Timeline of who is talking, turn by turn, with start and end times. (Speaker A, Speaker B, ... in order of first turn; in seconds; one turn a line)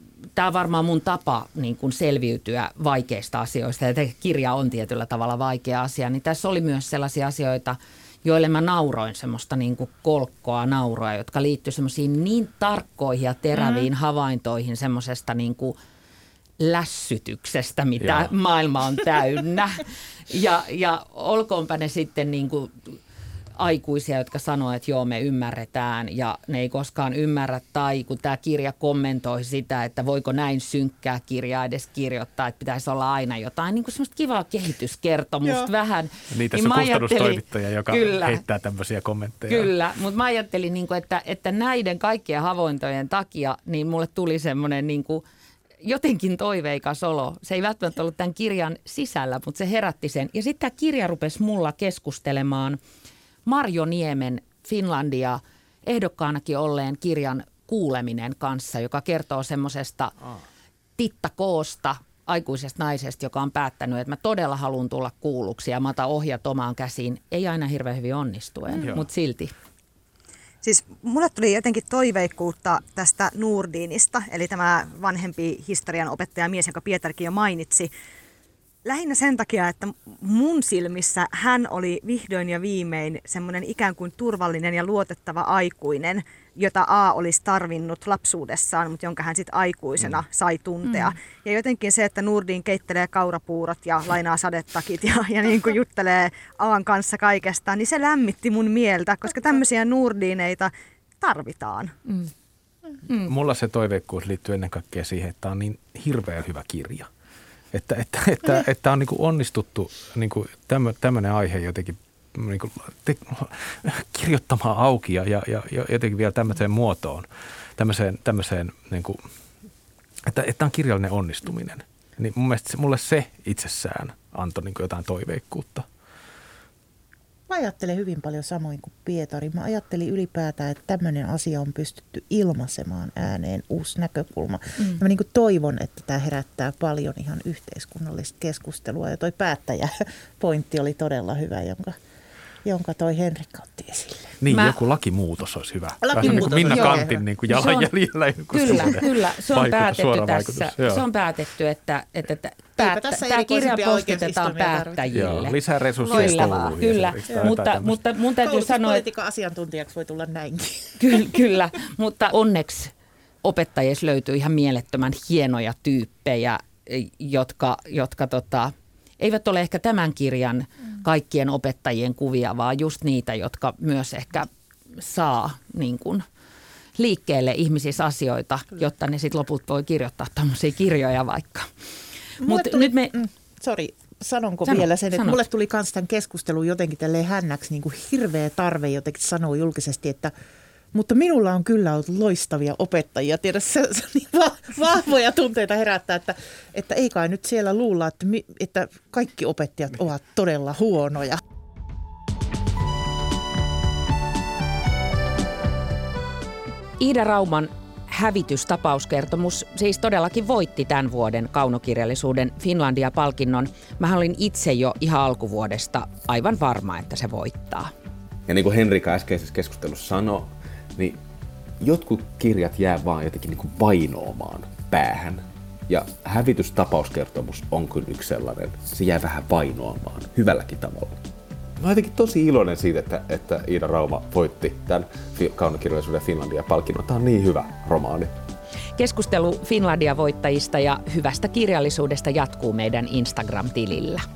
Speaker A: 0.4-15.8
Speaker A: 16.6-22.9
Speaker B: 18.0-18.3
Speaker A: 23.6-38.4
Speaker B: 36.3-39.7
Speaker A: 39.5-45.2
Speaker A: 45.8-52.8
Speaker A: 53.5-60.1
Speaker A: 61.0-69.5
Speaker B: 68.8-69.1
Speaker C: 70.6-77.9
Speaker C: 78.8-102.0
Speaker B: 103.1-107.1
Speaker B: 107.7-119.2
Speaker B: 120.3-125.9
Speaker D: 127.5-142.0
Speaker D: 142.7-144.4
Speaker B: 144.4-151.0
Speaker A: 144.5-144.8
Speaker D: 146.0-147.2
Speaker A: 146.2-147.9
Speaker A: 148.5-159.0
Speaker D: 152.8-155.2
Speaker B: 155.1-158.0
Speaker C: 156.1-156.4
Speaker D: 158.4-161.4
Speaker A: 161.0-176.2
Speaker A: 177.0-181.7
Speaker A: 182.4-183.2
Speaker D: 182.4-190.3
Speaker A: 184.7-185.4
Speaker D: 190.9-201.4
Speaker A: 207.0-217.9
Speaker E: 218.5-221.2
Speaker E: 221.8-231.2
Speaker E: 231.8-238.3
Speaker A: 239.0-244.2